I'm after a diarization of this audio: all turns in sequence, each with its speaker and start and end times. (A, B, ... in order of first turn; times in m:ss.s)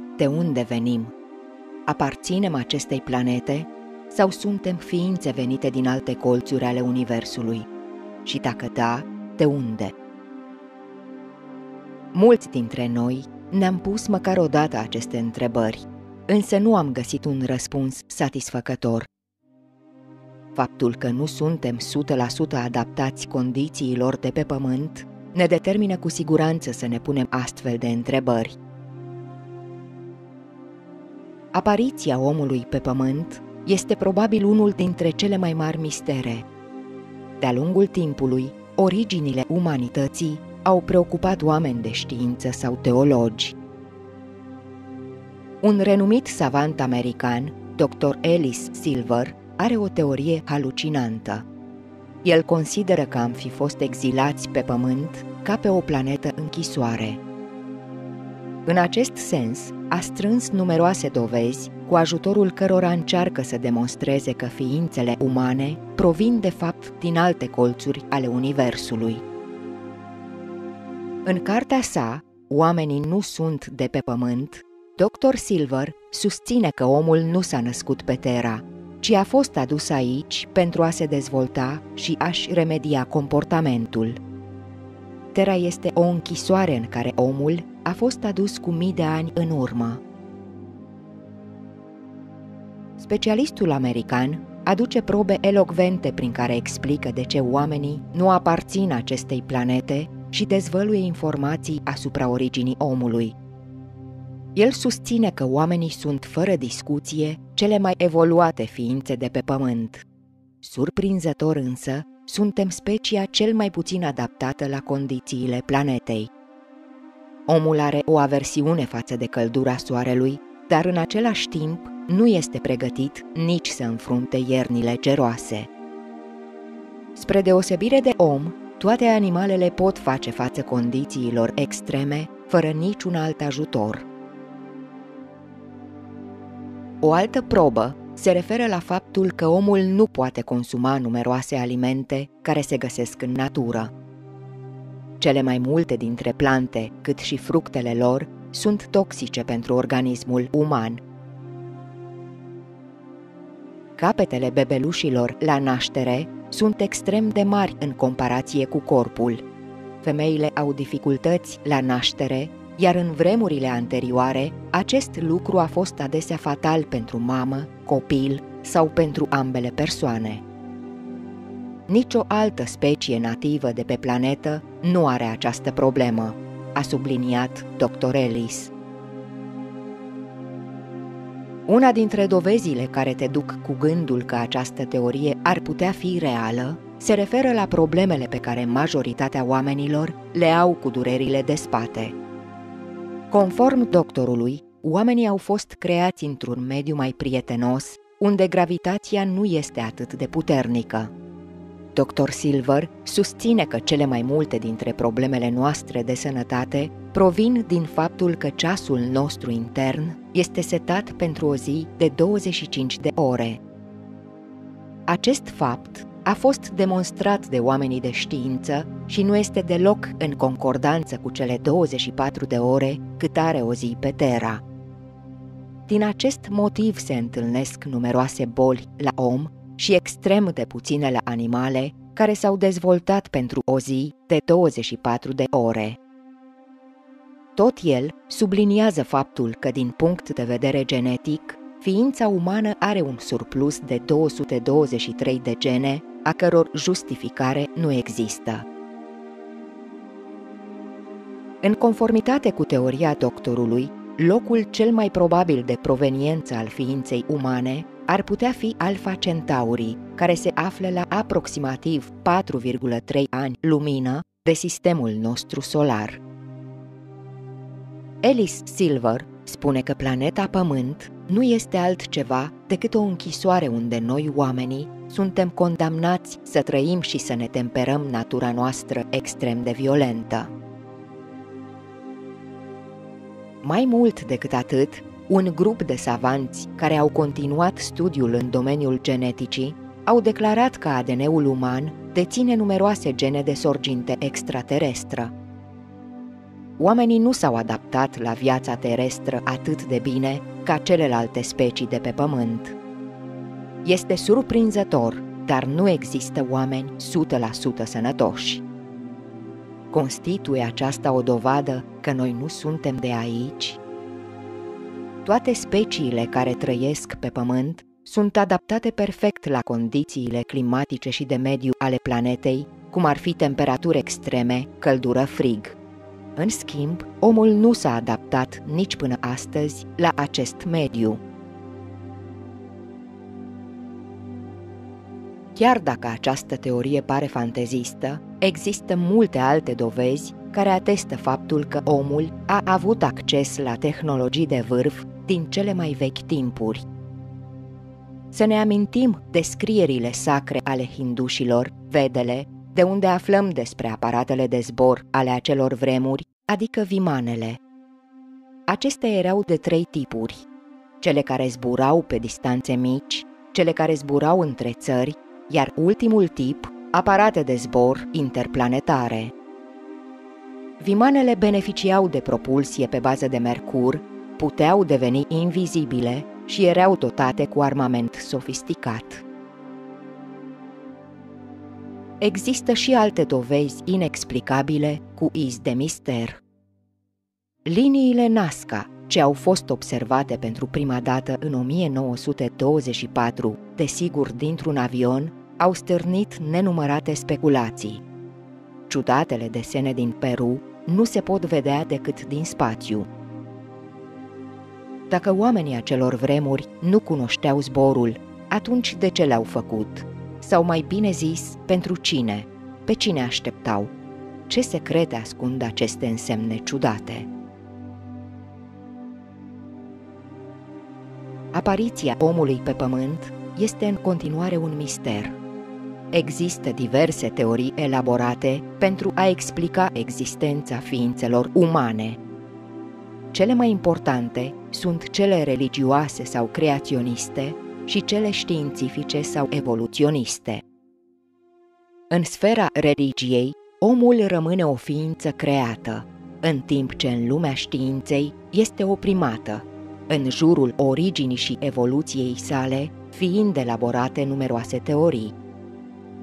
0:00.2-0:01.1 A
0:01.9-0:07.7 A
0:08.2-0:10.0 A
0:12.1-0:19.1 A
0:20.6-0:28.6 A
0:31.5-0:36.5 A
0:37.4-0:43.6 A
0:45.6-0:51.4 A
0:52.2-0:57.2 A
0:58.7-1:09.2 A
1:11.2-1:24.2 A
1:25.3-1:30.0 A
1:33.0-1:43.4 A
1:44.6-1:50.1 A
1:50.6-1:56.3 A
1:57.5-2:05.7 A
2:07.2-2:14.1 A
2:17.0-2:23.9 A
2:25.2-2:31.0 A
2:34.0-2:39.4 A
2:40.0-2:50.4 A
2:51.9-2:58.7 A
3:01.7-3:12.2 A
3:13.3-3:21.1 A
3:21.9-3:33.6 A
3:35.1-3:44.6 A
3:45.9-3:56.0 A
3:57.6-4:08.6 A
4:11.6-4:26.2 A
4:28.2-4:40.5 A
4:43.6-4:55.3 A
4:56.8-5:02.8 A
5:03.8-5:08.6 A
5:09.9-5:13.8 A
5:15.2-5:25.8 A
5:26.4-5:31.2 A
5:35.6-5:46.9 A
5:48.3-5:57.6 A
5:58.7-6:00.5 A
6:01.0-6:09.3 A
6:10.8-6:19.2 A
6:22.2-6:26.4 A
6:27.6-6:38.0 A
6:38.9-6:43.1 A
6:45.1-6:53.9 A
6:54.5-6:57.3 A
7:01.5-7:05.4 A
7:06.1-7:12.2 A
7:13.3-7:20.6 A
7:22.1-7:35.4 A